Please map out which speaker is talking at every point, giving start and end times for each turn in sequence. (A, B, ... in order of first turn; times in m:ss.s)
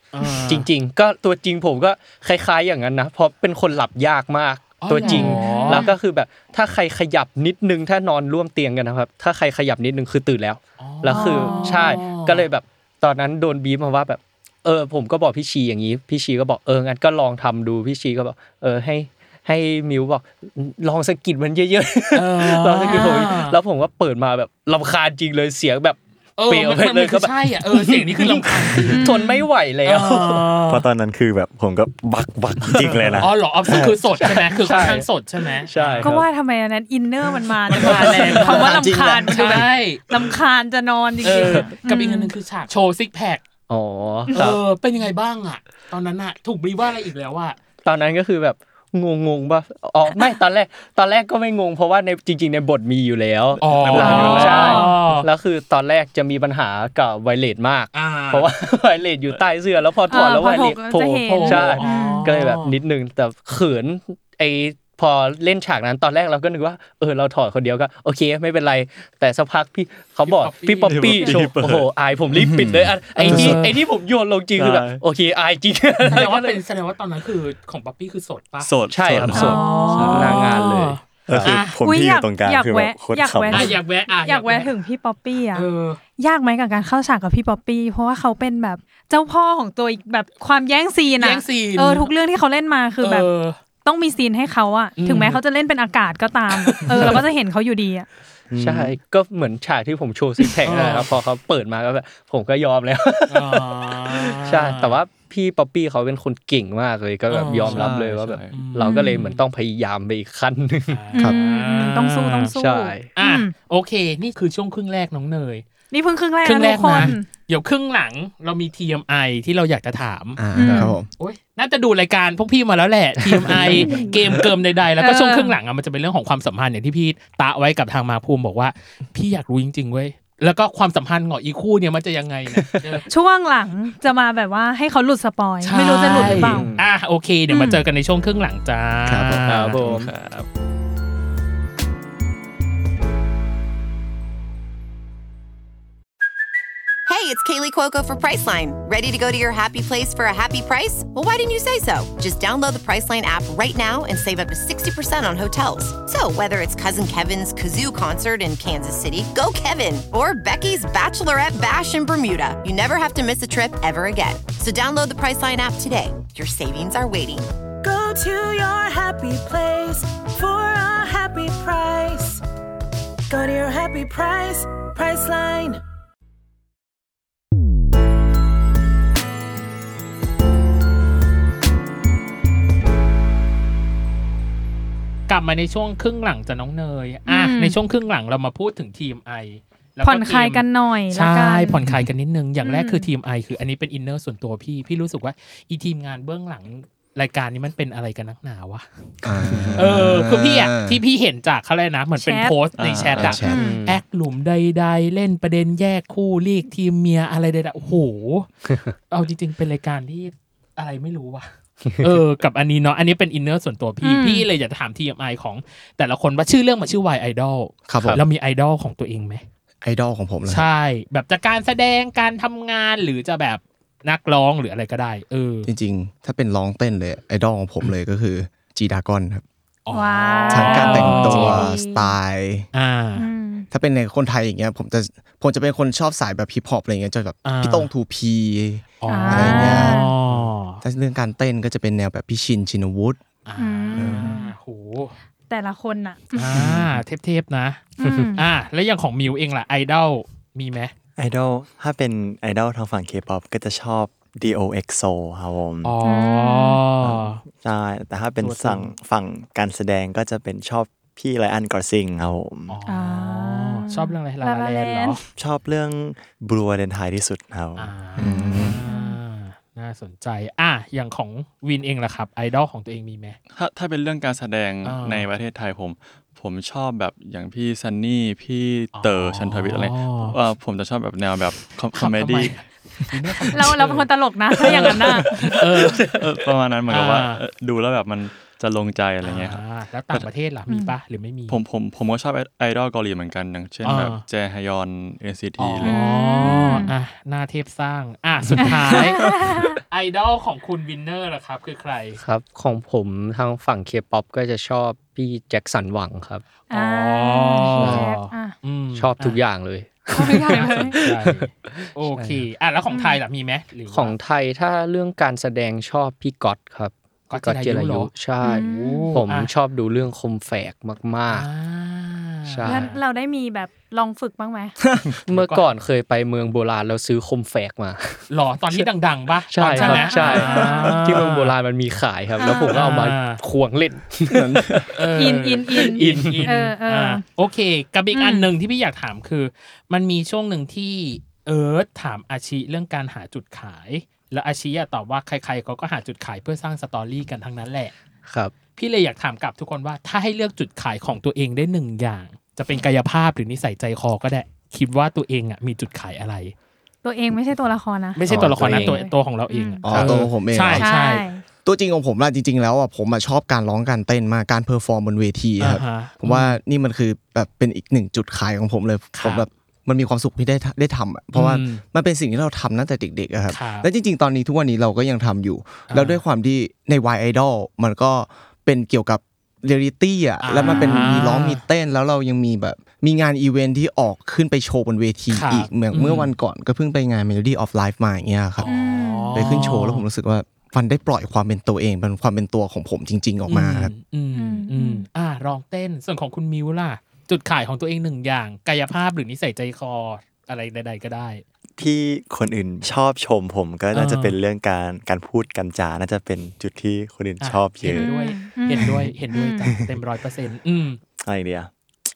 0:00.1-0:00.7 A
0:00.4-0:30.5 B
0:04.8-0:05.9 A
0:05.0-0:05.9 C
0:10.8-0:12.5 A
0:11.1-0:12.0 C
0:22.1-0:23.6 A
0:26.4-0:29.2 A
0:28.9-0:29.5 C
0:29.8-0:30.8 A
0:30.7-0:34.0 D
0:33.2-0:36.2 A
0:34.2-0:35.1 B
0:35.6-0:36.3 B
0:36.0-0:42.3 C
0:37.7-0:40.4 A
0:37.8-0:38.7 B
0:38.5-0:39.3 E
0:41.2-0:43.4 A
0:41.4-0:41.7 B
0:43.7-0:44.6 B
0:44.3-0:47.6 A
0:47.8-1:16.6 B
0:53.6-0:55.3 A
0:53.6-0:54.9 F
0:54.0-0:55.0 C
0:57.9-0:58.5 A
1:00.1-1:02.3 C
1:01.3-1:02.8 A
1:10.2-1:11.4 A
1:10.9-1:13.7 F
1:13.2-1:13.8 A
1:14.6-1:15.0 F
1:16.0-1:18.7 A
1:18.6-1:20.3 F
1:18.9-1:21.5 B
1:19.3-1:21.8 A
1:19.3-1:20.5 C
1:21.3-1:23.8 D
1:21.8-1:33.3 C
1:23.5-1:24.8 A
1:25.5-1:26.0 A
1:31.2-1:32.1 A
1:33.0-1:33.6 A
1:33.8-1:38.1 C
1:35.0-1:35.4 A
1:36.7-1:37.2 A
1:38.5-1:39.0 D
1:38.6-1:51.0 B
1:40.6-1:41.2 A
1:43.3-1:45.0 A
1:47.3-1:47.9 A
1:47.6-1:48.6 F
1:48.5-1:49.4 A
1:48.8-1:49.2 C
1:50.9-1:52.6 A
1:51.1-1:53.6 C
1:52.5-1:53.1 B
1:53.1-1:55.6 A
1:55.9-1:57.3 C
1:56.4-2:13.1 A
2:00.4-2:01.1 E
2:00.5-2:01.0 C
2:03.5-2:04.1 B
2:05.0-2:05.6 C
2:12.6-2:12.8 B
2:13.1-2:16.7 C
2:15.6-2:19.8 A
2:16.1-2:16.8 B
2:17.5-2:17.8 C
2:19.1-2:19.5 E
2:19.5-2:20.1 B
2:19.8-2:20.5 F
2:27.1-2:47.5 G
2:47.8-2:52.4 H
2:53.3-2:55.8 H
3:05.3-3:18.9 A
3:07.3-3:07.8 C
3:10.0-3:11.9 C
3:12.6-3:13.1 C
3:19.2-3:21.0 E
3:19.8-3:28.5 A
3:22.2-3:22.6 C
3:22.8-3:23.4 F
3:23.2-3:23.6 E
3:23.4-3:23.8 C
3:23.5-3:24.0 B
3:29.1-3:31.5 A
3:32.0-3:39.4 A
3:34.0-3:34.5 C
3:37.9-3:38.2 E
3:39.8-3:40.7 E
3:40.5-3:45.7 A
3:45.6-3:49.4 E
3:49.9-3:51.7 A
3:49.9-3:52.1 C
3:50.5-3:52.7 E
3:52.7-3:53.3 A
3:53.2-3:53.7 C
3:53.7-4:00.0 E
3:57.4-3:57.9 A
3:59.0-4:00.8 A
3:59.1-4:00.1 C
4:00.8-4:03.2 E
4:03.5-4:05.2 A
4:03.6-4:04.5 C
4:04.0-4:04.4 E
4:05.5-4:06.7 C
4:06.3-4:10.9 A
4:08.0-4:08.5 C
4:11.2-4:16.0 D
4:15.8-4:17.4 A
4:16.0-4:16.8 C
4:17.0-4:22.8 D
4:18.4-4:18.9 A
4:22.7-4:25.2 A
4:22.9-4:25.2 C
4:25.4-4:27.9 D
4:27.8-4:33.4 A
4:28.2-4:28.8 E
4:28.2-4:29.2 C
4:33.5-4:42.6 F
4:34.8-4:35.3 A
4:38.9-4:40.4 A
4:41.9-4:46.2 A
4:43.5-4:45.6 C
4:45.2-4:46.2 B
4:46.0-4:50.3 F
4:46.9-4:47.4 A
4:49.2-4:51.6 A
4:50.7-4:51.0 C
4:51.5-4:56.0 F
4:53.8-4:54.2 A
4:55.6-5:02.2 A
4:55.8-4:56.9 C
4:58.6-4:59.8 C
5:02.2-5:06.4 B
5:06.7-5:09.4 A
5:06.7-5:08.6 C
5:07.7-5:08.1 B
5:09.0-5:12.4 B
5:10.1-5:11.0 C
5:10.2-5:14.2 A
5:12.9-5:13.2 C
5:13.9-5:21.5 B
5:17.3-5:19.5 A
5:18.4-5:19.2 C
5:21.3-5:23.0 A
5:22.5-5:22.9 B
5:22.6-5:24.8 C
5:25.3-5:28.9 B
5:25.3-5:25.7 A
5:28.3-5:31.6 A
5:29.5-5:34.9 B
5:29.7-5:31.0 C
5:32.4-5:32.9 C
5:32.4-5:33.4 A
5:34.3-5:34.9 E
5:34.9-5:47.9 A
5:35.1-5:37.2 C
5:35.7-5:36.5 B
5:38.1-5:38.5 C
5:48.3-5:48.5 B
5:48.8-5:56.5 A
5:57.0-6:00.1 C
5:58.2-6:01.3 A
5:58.3-5:59.0 B
5:59.8-6:00.9 E
6:00.7-6:01.4 C
6:01.6-6:28.7 E
6:05.6-6:06.6 A
6:09.2-6:09.5 A
6:11.3-6:11.8 A
6:13.5-6:13.9 A
6:15.9-6:16.2 A
6:20.4-6:21.6 A
6:25.3-6:26.3 A
6:28.6-6:30.0 A
6:28.6-6:29.7 C
6:29.3-6:33.9 E
6:33.5-6:41.4 A
6:34.4-6:35.1 C
6:41.8-6:48.1 D
6:43.9-6:44.4 A
6:47.4-6:51.0 A
6:47.9-6:49.7 C
6:48.8-6:49.0 D
6:49.7-6:49.9 D
6:51.2-6:51.7 D